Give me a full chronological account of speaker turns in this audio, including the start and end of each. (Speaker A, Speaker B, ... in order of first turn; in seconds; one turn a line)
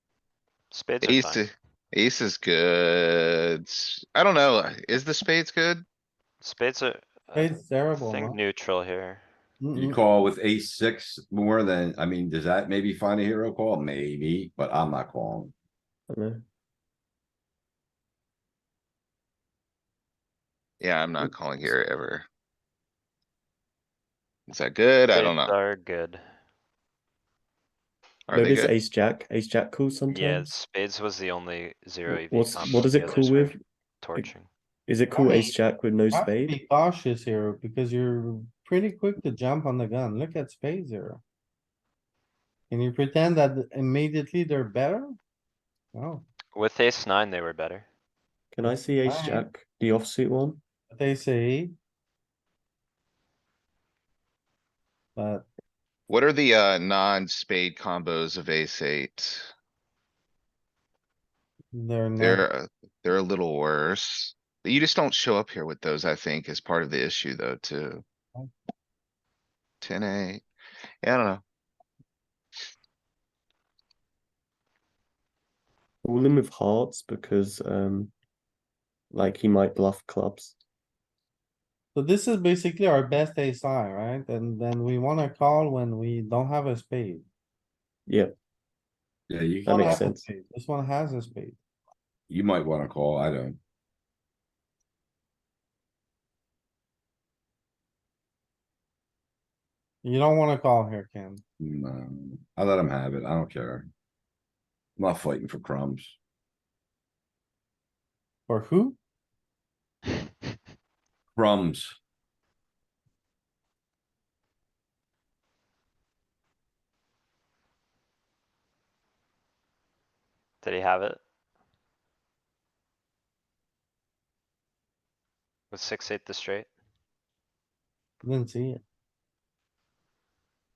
Speaker A: 0.7-1.5
Speaker B: 1.0-5.8
Speaker A: 6.4-9.2
Speaker C: 7.3-8.4
Speaker C: 9.6-10.0
Speaker D: 9.8-15.5
Speaker E: 16.1-16.4
Speaker B: 20.8-22.3
Speaker B: 24.5-25.5
Speaker A: 25.1-26.2
Speaker B: 28.3-28.7
Speaker E: 28.3-30.5
Speaker A: 30.1-34.5
Speaker E: 32.1-33.6
Speaker E: 34.9-36.6
Speaker C: 35.1-35.5
Speaker C: 36.1-41.2
Speaker C: 42.7-45.2
Speaker C: 45.9-46.2
Speaker A: 46.5-47.9
Speaker E: 48.5-50.6
Speaker C: 48.6-49.5
Speaker C: 50.9-51.7
Speaker C: 55.1-55.5
Speaker B: 56.1-59.5
Speaker C: 61.7-62.5
Speaker B: 62.2-68.0
Speaker B: 69.8-70.5
Speaker B: 71.0-71.4
Speaker E: 76.0-78.1
Speaker E: 79.1-80.6
Speaker C: 81.9-87.3
Speaker E: 88.1-88.3
Speaker D: 89.3-90.0
Speaker C: 89.7-91.6
Speaker E: 89.7-90.3
Speaker D: 92.3-93.6
Speaker C: 100.0-101.4
Speaker D: 101.6-103.9
Speaker D: 105.0-106.2
Speaker C: 108.5-109.0
Speaker D: 111.3-112.0
Speaker A: 120.6-121.2
Speaker A: 125.7-126.7
Speaker C: 128.2-128.8